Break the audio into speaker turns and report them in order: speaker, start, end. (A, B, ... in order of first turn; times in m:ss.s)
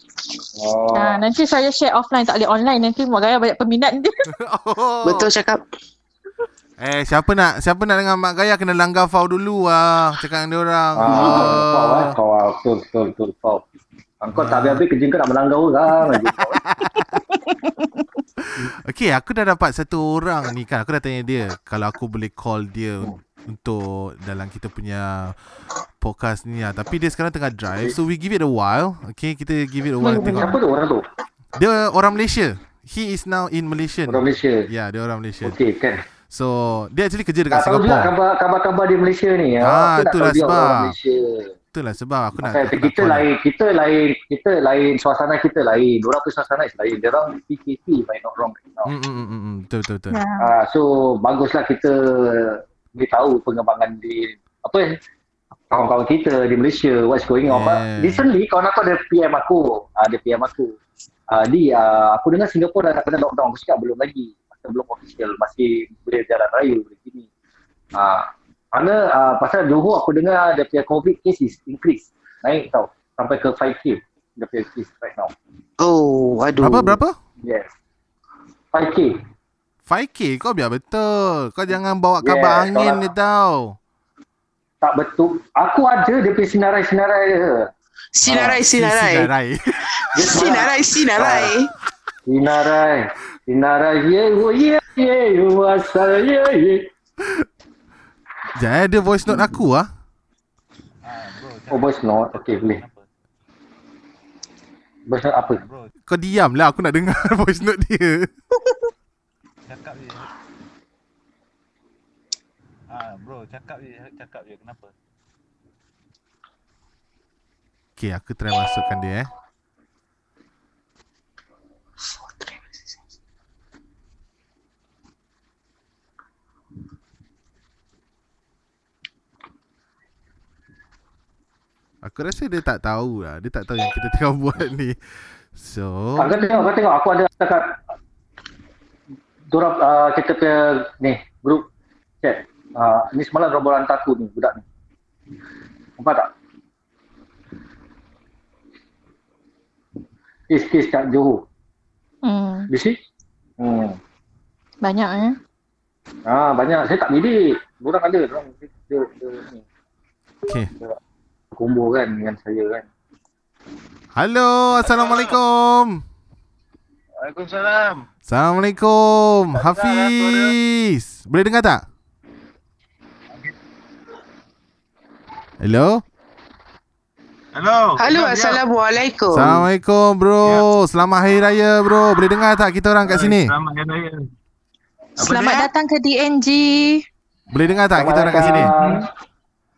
0:00.6-0:01.2 A
0:00.9-0:04.3 B
0:04.3-0:05.3 C
0:05.0-0:05.6 D
0:06.8-0:12.2 C
0:11.0-0:13.6 A
0:14.2-0:16.6 A
0:14.3-0:14.8 C
0:16.1-0:17.2 C
0:17.3-0:18.1 B
0:18.4-0:25.4 C
0:26.0-0:30.6 C
0:30.0-0:30.5 B
0:30.1-0:31.0 A
0:31.6-0:35.6 C
0:34.1-0:34.7 A
0:35.4-0:36.0 A
0:36.3-0:38.1 C
0:37.5-0:41.5 A
0:39.6-0:41.0 C
0:41.7-0:43.3 C
0:42.4-0:48.9 A
0:48.9-0:50.2 C
0:50.4-0:55.0 A
0:55.7-1:00.8 A
0:57.5-0:58.3 C
1:01.3-1:07.3 A
1:07.9-1:15.3 A
1:15.8-1:17.0 D
1:16.6-1:17.2 C
1:17.4-1:17.7 A
1:18.7-1:19.2 A
1:19.9-1:23.8 C
1:22.2-1:23.0 A
1:24.8-1:27.7 A
1:28.2-1:29.3 D
1:28.3-1:28.6 A
1:28.7-1:30.4 C
1:30.2-1:31.5 A
1:30.2-1:31.7 D
1:32.3-1:36.9 A
1:38.6-1:39.9 C
1:41.0-1:43.1 E
1:41.7-1:42.8 A
1:45.1-1:45.6 A
1:45.5-1:45.9 E
1:46.1-1:48.3 C
1:49.7-1:50.3 E
1:52.9-1:54.9 E
1:58.0-1:59.3 C
2:12.0-2:15.0 C
2:15.6-2:16.4 C
2:16.2-2:17.8 A
2:19.5-2:21.7 A
2:22.2-2:24.6 A
2:26.0-2:26.3 A
2:30.5-2:31.4 A
2:32.2-2:32.7 B
2:32.7-2:33.0 A
2:33.6-2:34.0 A
2:34.8-2:35.4 B
2:36.3-2:39.6 A
2:41.6-2:42.9 A
2:44.2-2:46.0 C
2:44.8-2:45.4 E
2:47.2-2:48.1 E
2:48.3-2:51.8 C
2:49.5-2:50.5 E
2:55.6-2:56.0 C
2:57.5-2:58.6 E
2:58.0-2:59.6 D
2:59.3-3:03.5 C
3:03.0-3:04.2 E
3:05.2-3:05.7 E
3:05.2-3:07.0 B
3:07.5-3:08.7 C
3:08.0-3:09.0 A
3:08.4-3:09.0 E